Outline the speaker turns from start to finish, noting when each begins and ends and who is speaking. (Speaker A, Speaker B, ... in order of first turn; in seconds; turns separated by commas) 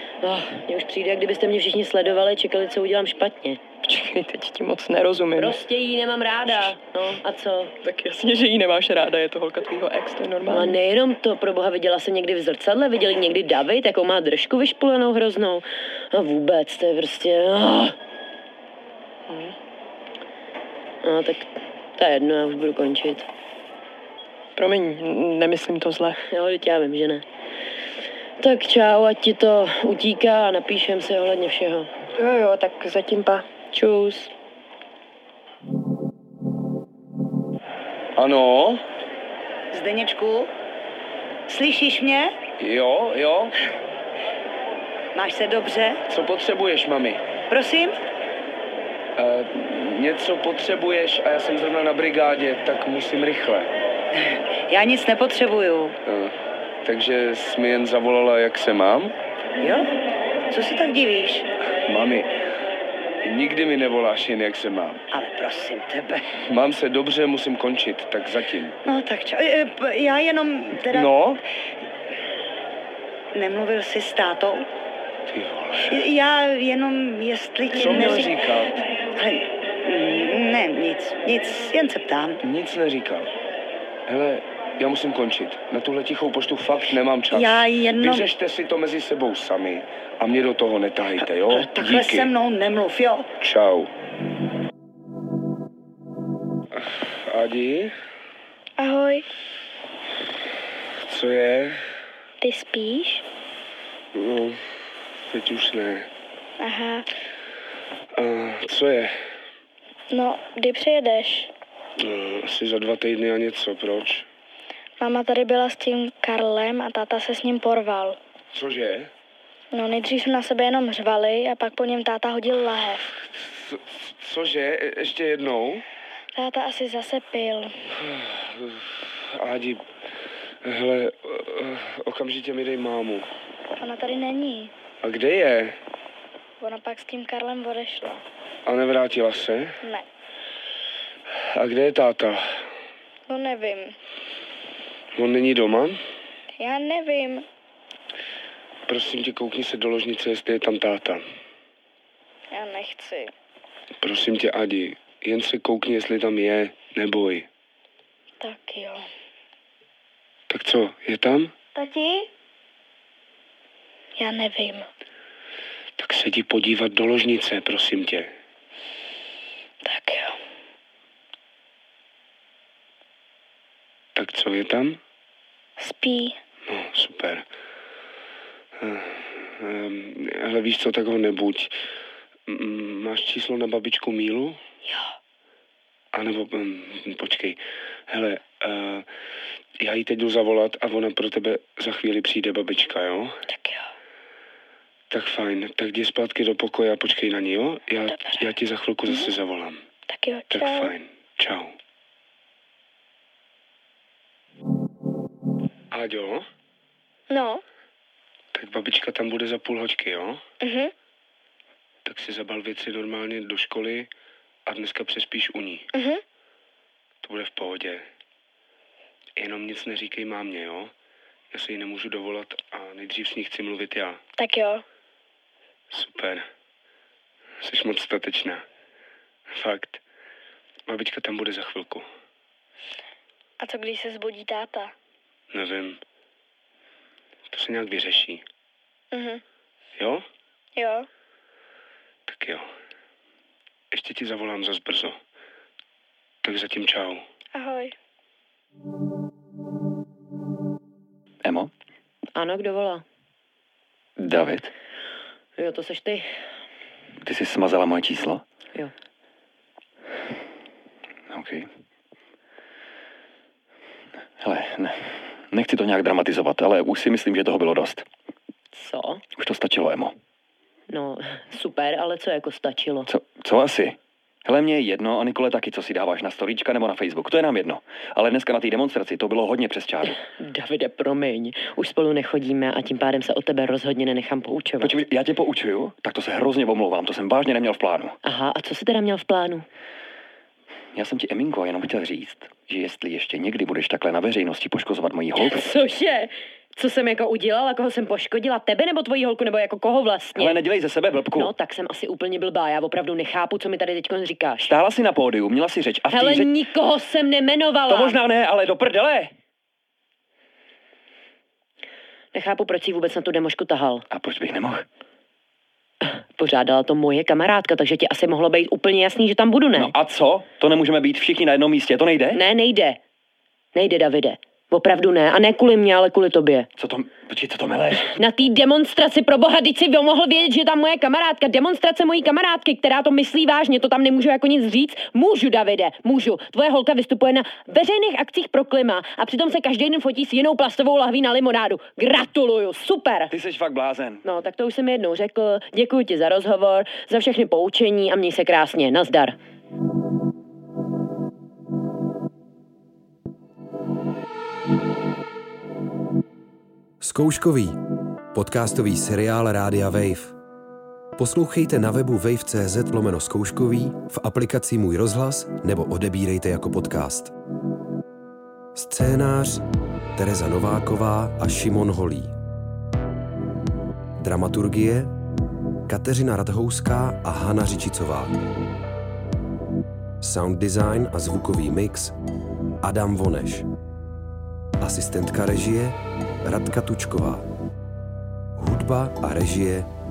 Speaker A: 0.2-3.6, Speaker B: 3.8-5.6, Speaker A: 5.3-7.7, Speaker B: 7.8-10.8, Speaker A: 10.5-17.9, Speaker B: 19.3-19.5, Speaker A: 21.0-23.2, Speaker B: 24.6-26.2, Speaker A: 26.2-27.2, Speaker A: 28.4-31.9, Speaker B: 32.2-33.4, Speaker A: 33.7-34.3, Speaker C: 38.1-38.8, Speaker D: 39.7-40.5, Speaker D: 41.5-42.3, Speaker C: 42.6-43.5, Speaker D: 45.1-46.0, Speaker C: 46.1-47.2, Speaker D: 47.5-48.0, Speaker C: 49.1-53.7, Speaker D: 54.1-56.0, Speaker C: 56.0-59.1, Speaker D: 59.6-59.9, Speaker D: 60.5-61.5, Speaker C: 61.8-62.3, Speaker C: 63.2-65.0, Speaker D: 65.1-66.2, Speaker C: 66.4-68.8, Speaker D: 68.8-71.1, Speaker C: 70.9-71.4, Speaker D: 73.3-74.7, Speaker C: 75.3-76.0, Speaker D: 75.9-78.3, Speaker C: 77.7-78.8, Speaker D: 79.1-82.4, Speaker C: 82.4-83.3, Speaker C: 84.1-92.3, Speaker D: 87.3-88.3, Speaker D: 91.5-93.3, Speaker C: 93.4-93.9, Speaker C: 96.8-97.9, Speaker E: 98.8-99.2, Speaker C: 101.0-101.8, Speaker E: 102.4-103.2, Speaker C: 104.1-104.7, Speaker C: 105.3-106.1, Speaker E: 106.6-107.1, Speaker C: 108.1-109.1, Speaker E: 110.1-111.5, Speaker C: 112.0-114.3, Speaker E: 115.0-118.2, Speaker C: 118.5-119.1, Speaker E: 119.7-123.2, Speaker C: 123.3-125.8, Speaker E: 126.4-127.8, Speaker C: 128.0-129.8, Speaker C: 130.6-133.3, Speaker E: 133.8-134.7, Speaker C: 135.0-135.8, Speaker E: 136.6-138.2, Speaker C: 138.6-139.8, Speaker C: 141.4-142.6, Speaker E: 143.3-143.9, Speaker C: 145.2-146.0, Speaker E: 146.6-147.4, Speaker C: 148.9-151.2, Speaker E: 152.5-153.3, Speaker C: 154.0-157.5, Speaker E: 158.4-159.0, Speaker C: 160.5-161.5, Speaker E: 161.7-162.3, Speaker E: 164.2-164.9, Speaker C: 166.0-168.3, Speaker E: 169.8-170.3, Speaker C: 174.1-175.0, Speaker E: 175.8-176.4, Speaker C: 176.7-177.4, Speaker C: 178.8-181.7, Speaker C: 182.5-184.6, Speaker C: 186.1-189.1, Speaker C: 189.8-193.4, Speaker E: 193.5-193.8, Speaker C: 195.1-199.8, Speaker E: 198.1-198.5, Speaker E: 199.1-199.3, Speaker E: 200.1-200.9, Speaker C: 200.5-201.7, Speaker C: 205.9-206.4, Speaker E: 207.3-207.6, Speaker C: 208.5-210.4, Speaker E: 210.6-210.9, Speaker C: 212.0-214.1, Speaker C: 214.7-215.9, Speaker E: 215.9-216.2, Speaker C: 217.2-218.1, Speaker C: 219.4-220.9, Speaker C: 221.5-224.2, Speaker E: 224.4-224.8, Speaker C: 225.9-226.5, Speaker C: 227.6-228.6, Speaker C: 229.5-230.0, Speaker C: 230.9-232.1, Speaker E: 233.6-234.9, Speaker C: 235.5-236.0, Speaker C: 237.5-238.4, Speaker E: 239.1-239.4, Speaker C: 240.0-240.2, Speaker E: 240.8-241.1, Speaker C: 242.3-242.7, Speaker C: 243.9-245.2, Speaker C: 246.4-247.2, Speaker E: 247.5-247.9, Speaker F: 251.4-251.7, Speaker A: 252.3-253.0, Speaker F: 254.2-254.7, Speaker A: 255.6-256.3, Speaker F: 257.2-258.4, Speaker F: 261.3-261.7, Speaker F: 264.4-268.1, Speaker A: 268.7-269.2, Speaker F: 269.3-270.2, Speaker A: 270.9-273.1, Speaker F: 273.1-280.2, Speaker A: 280.3-284.9, Speaker F: 284.8-288.1, Speaker A: 288.2-289.6, Speaker F: 290.9-295.6, Speaker A: 295.4-300.6, Speaker F: 300.3-301.5, Speaker A: 301.3-304.7, Speaker F: 304.6-306.5, Speaker A: 306.1-308.2, Speaker F: 307.9-309.3, Speaker A: 312.3-314.0, Speaker F: 314.1-314.8, Speaker A: 316.0-319.9, Speaker F: 319.8-322.4, Speaker A: 322.3-323.0, Speaker A: 323.7-326.7, Speaker F: 326.8-328.1, Speaker A: 328.1-343.3, Speaker F: 343.3-344.2, Speaker A: 344.2-349.3, Speaker G: 357.0-357.8, Speaker G: 358.3-360.3, Speaker G: 361.2-367.3, Speaker G: 368.7-372.3, Speaker G: 374.2-375.1, Speaker G: 375.9-378.3, Speaker G: 380.2-382.1, Speaker G: 382.8-383.6, Speaker G: 384.8-387.4, Speaker G: 388.6-389.9